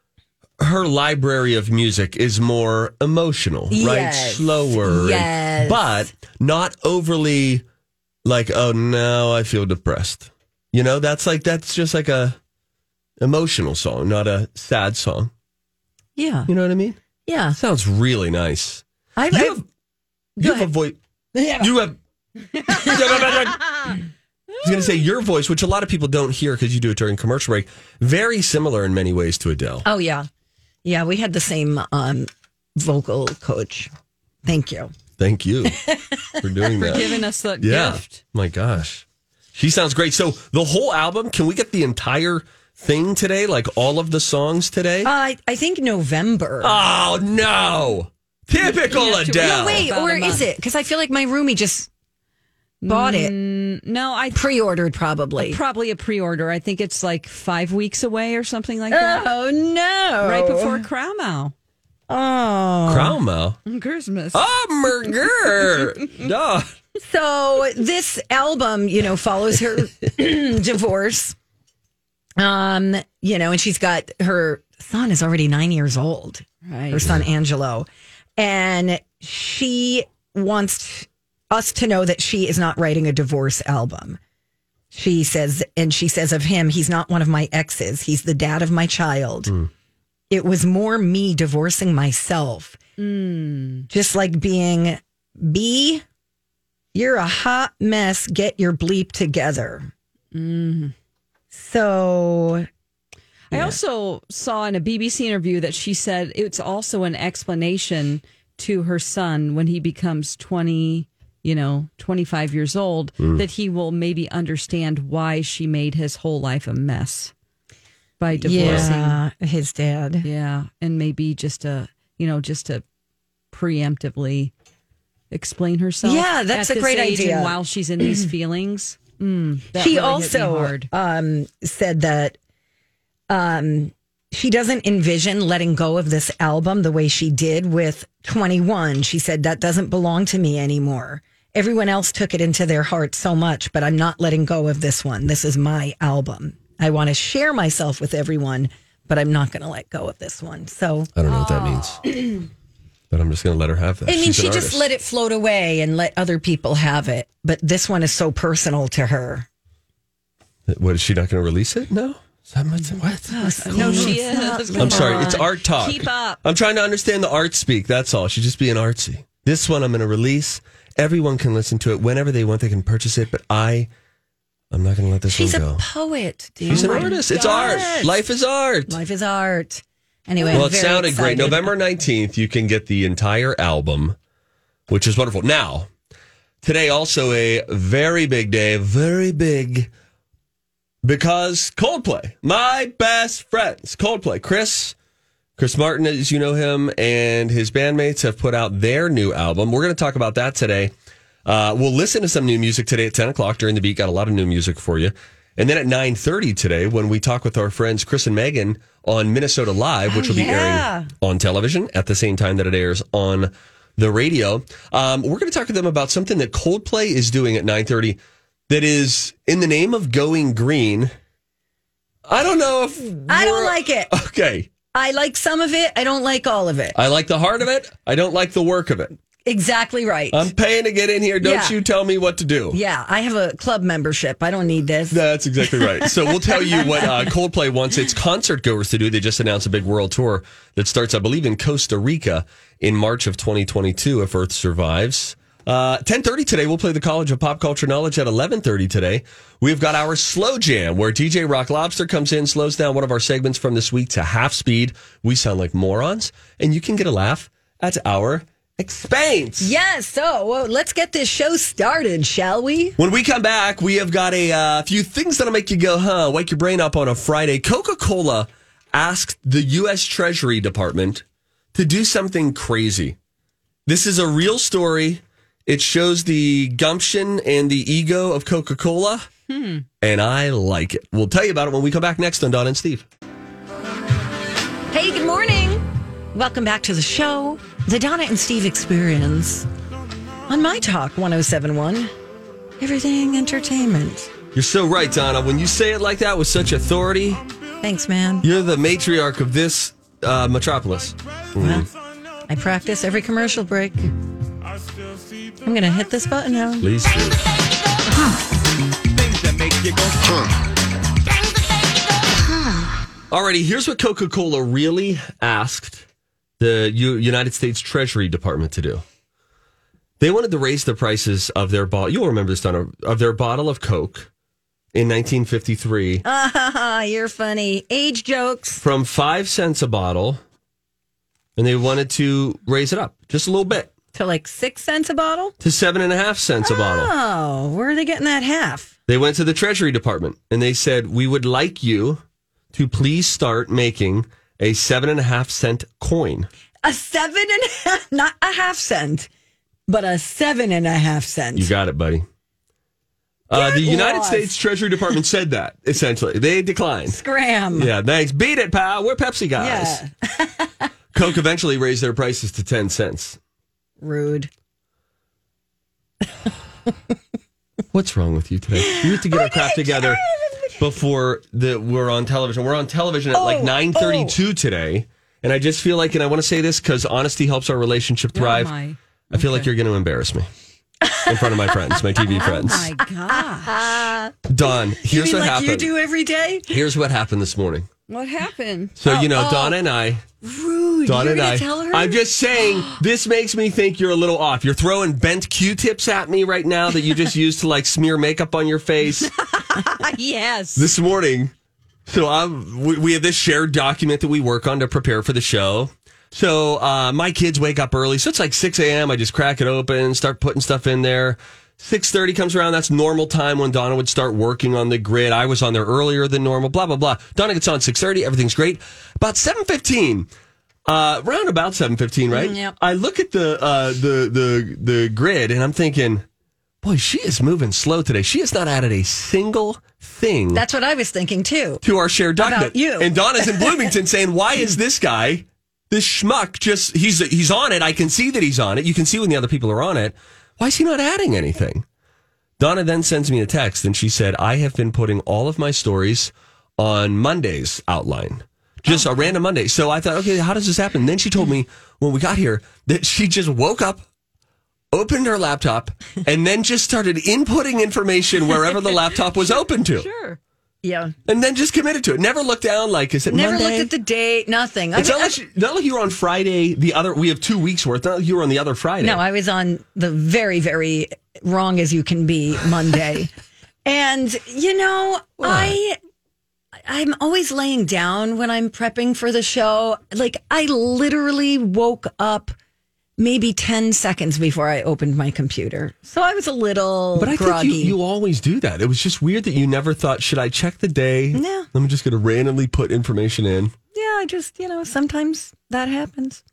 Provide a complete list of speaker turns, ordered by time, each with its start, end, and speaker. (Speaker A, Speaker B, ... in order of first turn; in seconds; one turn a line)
Speaker A: 0.6-7.6
Speaker B: 3.7-6.1
Speaker A: 8.2-12.4
Speaker A: 13.2-15.3
Speaker B: 16.2-16.5
Speaker A: 16.5-17.0
Speaker B: 17.3-17.6
Speaker A: 17.5-19.6
Speaker B: 19.2-19.6
Speaker A: 20.4-21.0
Speaker B: 20.4-20.7
Speaker B: 21.4-21.7
Speaker A: 21.6-22.0
Speaker A: 22.7-23.9
Speaker A: 24.6-29.9
Speaker B: 29.8-30.3
Speaker B: 30.8-33.9
Speaker B: 34.4-34.9
Speaker A: 35.2-35.8
Speaker B: 35.6-36.5
Speaker A: 36.4-39.0
Speaker C: 36.8-38.2
Speaker A: 39.5-45.1
Speaker B: 45.0-46.8
Speaker A: 46.6-49.9
Speaker C: 48.9-50.4
Speaker B: 49.4-51.9
Speaker C: 52.8-54.5
Speaker B: 52.9-53.3
Speaker B: 54.3-55.6
Speaker C: 55.4-59.3
Speaker B: 58.9-60.9
Speaker C: 60.2-61.5
Speaker B: 62.1-63.2
Speaker A: 62.9-63.6
Speaker C: 63.7-64.4
Speaker A: 64.3-66.7
Speaker B: 67.0-71.4
Speaker B: 72.4-84.2
Speaker C: 76.7-77.1
Speaker B: 84.9-89.5
Speaker B: 90.3-92.8
Speaker C: 93.0-93.9
Speaker B: 93.9-96.0
Speaker B: 96.9-99.9
Speaker C: 100.3-100.9
Speaker B: 101.5-102.7
Speaker C: 103.5-117.3
Speaker A: 113.2-113.4
Speaker C: 118.2-119.2
Speaker B: 118.4-120.3
Speaker A: 118.6-118.9
Speaker C: 120.2-122.8
Speaker C: 123.5-124.5
Speaker C: 125.3-130.9
Speaker B: 126.0-127.6
Speaker B: 129.7-132.4
Speaker B: 133.3-152.3
Speaker A: 151.2-152.1
Speaker A: 153.1-154.9
Speaker B: 154.1-159.5
Speaker A: 160.7-164.2
Speaker B: 163.3-165.5
Speaker C: 163.3-166.4
Speaker A: 164.7-173.9
Speaker A: 174.7-175.8
Speaker B: 175.3-178.2
Speaker A: 176.7-179.0
Speaker C: 176.9-177.1
Speaker B: 178.9-181.7
Speaker A: 180.5-184.2
Speaker A: 184.9-185.9
Speaker A: 186.6-189.9
Speaker A: 191.0-194.9
Speaker A: 195.6-200.9
Speaker A: 201.5-218.2
Speaker B: 210.1-211.1
Speaker A: 218.7-221.1
Speaker A: 222.3-224.7
Speaker B: 223.3-224.1
Speaker B: 224.9-227.0
Speaker A: 226.9-229.1
Speaker B: 229.4-230.5
Speaker A: 230.3-232.8
Speaker B: 231.4-231.8
Speaker B: 232.7-237.3
Speaker A: 235.1-259.7
Speaker B: 259.6-263.0
Speaker A: 263.0-271.2
Speaker A: 271.8-273.2
Speaker A: 273.9-279.3
Speaker C: 279.5-279.8
Speaker A: 280.0-283.1
Speaker B: 284.9-289.7
Speaker B: 290.5-292.1
Speaker B: 292.8-294.3
Speaker A: 294.5-297.4
Speaker B: 297.8-298.5
Speaker A: 298.4-301.9
Speaker B: 301.6-301.9
Speaker B: 302.5-304.1
Speaker B: 305.6-306.9
Speaker A: 306.8-307.4
Speaker A: 313.3-316.1
Speaker A: 316.6-319.0
Speaker A: 320.2-324.3
Speaker A: 324.9-326.2
Speaker B: 326.2-328.8
Speaker A: 328.8-330.4
Speaker A: 331.6-333.9
Speaker B: 334.1-335.6
Speaker A: 335.6-337.1
Speaker B: 336.6-338.9
Speaker A: 339.1-342.2
Speaker A: 342.7-346.5
Speaker B: 346.8-349.3
Speaker B: 349.9-351.7
Speaker A: 351.6-352.3
Speaker A: 353.5-357.2
Speaker B: 353.5-354.6
Speaker B: 357.1-357.9
Speaker A: 357.8-360.0
Speaker B: 359.6-360.9
Speaker A: 361.1-363.4
Speaker B: 364.0-364.5
Speaker A: 367.9-370.2
Speaker B: 368.8-370.9
Speaker A: 370.8-378.7
Speaker B: 373.3-374.4
Speaker C: 378.3-379.7
Speaker A: 379.3-380.5
Speaker B: 381.0-386.9
Speaker A: 381.3-382.9
Speaker C: 382.3-383.9
Speaker A: 384.5-385.9
Speaker A: 386.7-387.9
Speaker C: 388.1-388.9
Speaker A: 389.0-390.2
Speaker B: 389.0-389.8
Speaker B: 390.4-392.2
Speaker A: 391.1-399.3
Speaker C: 399.6-400.9
Speaker A: 400.8-401.5
Speaker A: 402.1-420.3
Speaker A: 420.9-426.2
Speaker B: 422.3-422.8
Speaker A: 426.8-430.6
Speaker B: 430.5-431.8
Speaker A: 431.8-441.9
Speaker B: 432.4-433.9
Speaker A: 442.6-454.0
Speaker A: 454.9-460.1
Speaker C: 459.9-460.4
Speaker B: 460.8-461.1
Speaker A: 461.3-463.9
Speaker B: 463.3-465.4
Speaker A: 464.9-469.2
Speaker B: 469.0-473.3
Speaker B: 473.9-476.0
Speaker A: 475.4-475.8
Speaker B: 476.8-482.6
Speaker B: 483.2-488.0
Speaker A: 487.2-493.8
Speaker B: 491.3-491.7
Speaker B: 493.9-496.4